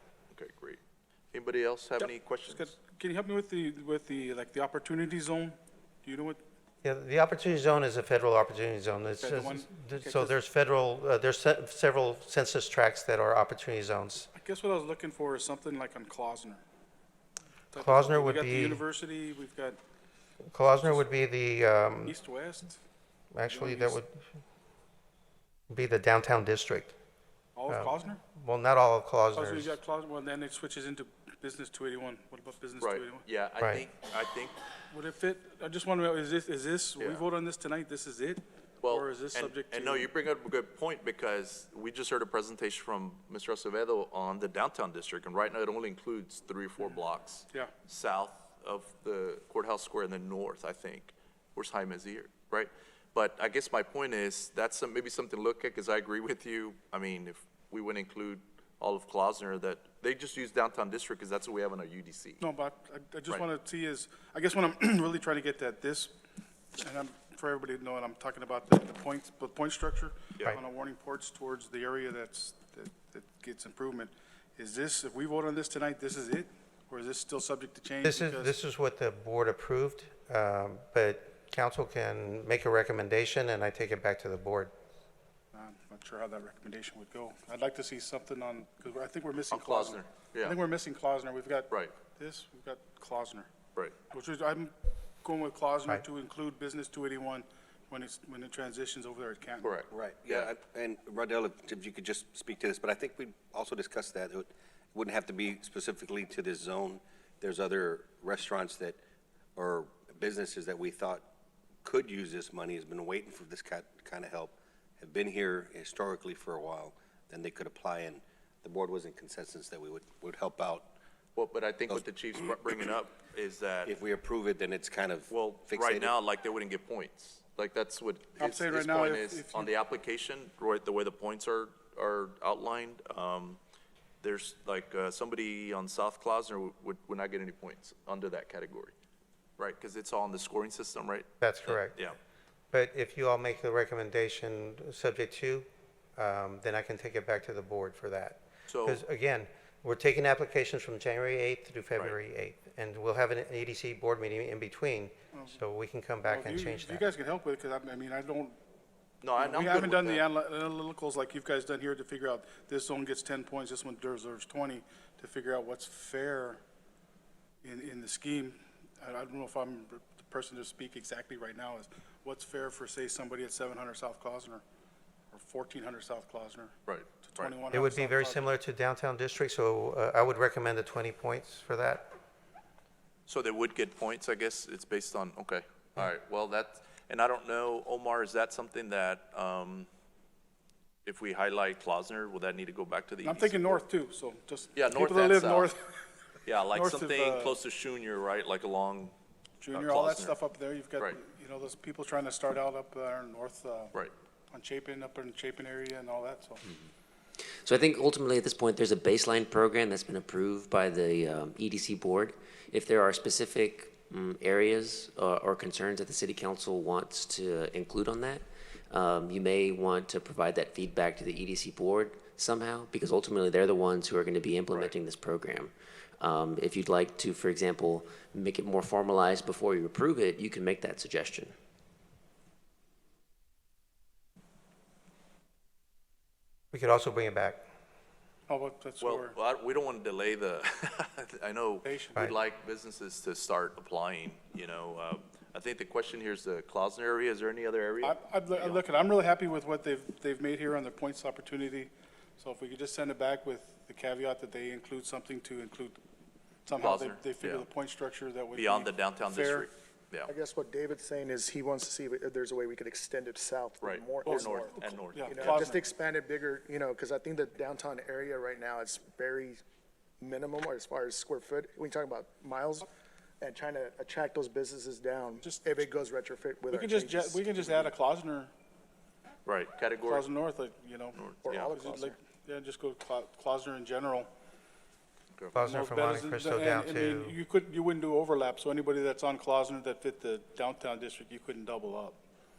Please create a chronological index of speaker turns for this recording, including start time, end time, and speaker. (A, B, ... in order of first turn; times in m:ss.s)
0:00.3-0:00.8 A
0:01.3-0:02.7 A
0:02.0-0:06.4 B
0:06.8-0:14.3 C
0:09.2-0:10.4 B
0:14.4-0:16.6 B
0:17.7-0:19.8 B
0:17.8-0:18.8 C
0:20.4-0:22.1 C
0:22.1-0:22.8 B
0:23.3-0:24.3 C
0:23.5-0:24.0 B
0:25.7-0:27.0 C
0:27.6-0:28.2 B
0:27.7-0:29.8 C
0:29.4-0:33.2 B
0:32.8-0:34.6 A
0:33.6-0:33.9 C
0:34.9-0:40.1 B
0:38.8-1:02.4 A
1:02.4-1:06.1 B
1:06.7-1:18.5 B
1:18.0-1:24.7 C
1:25.5-1:33.5 B
1:29.5-1:30.6 A
1:34.1-1:39.8 B
1:39.6-1:40.5 A
1:39.9-1:49.0 D
1:49.6-1:51.2 D
1:51.8-2:00.9 D
2:01.4-2:04.0 A
2:01.9-2:02.7 D
2:03.8-2:06.2 D
2:05.3-2:13.6 A
2:08.4-2:09.7 B
2:14.2-2:18.9 A
2:19.6-2:22.2 A
2:21.4-2:22.0 C
2:22.7-2:37.0 C
2:28.7-2:29.0 A
2:36.2-2:38.6 B
2:39.2-2:40.2 A
2:39.4-2:46.6 B
2:47.6-2:54.6 B
2:55.3-2:58.5 B
2:56.9-2:57.6 A
2:57.7-3:02.1 C
3:03.3-3:09.9 A
3:11.0-3:13.8 A
3:13.2-3:16.0 B
3:14.8-3:15.7 A
3:16.4-3:19.2 A
3:16.7-3:17.5 B
3:19.6-3:23.9 B
3:19.7-3:20.4 A
3:24.5-3:26.6 B
3:27.6-3:51.5 E
3:56.7-3:57.6 C
3:58.5-3:59.4 B
3:59.0-4:08.8 A
4:01.8-4:02.2 B
4:08.0-4:16.0 B
4:16.7-4:19.7 B
4:16.8-4:17.7 A
4:18.5-4:20.3 A
4:20.3-4:29.6 F
4:23.8-4:25.6 A
4:24.2-4:25.8 B
4:30.2-4:32.9 F
4:33.4-4:37.9 F
4:35.4-4:35.8 B
4:36.7-4:38.5 B
4:39.4-4:40.3 A
4:40.1-4:41.2 B
4:41.2-4:41.8 A
4:41.4-4:42.2 F
4:41.8-4:44.3 B
4:45.5-4:47.4 C
4:45.6-4:52.2 B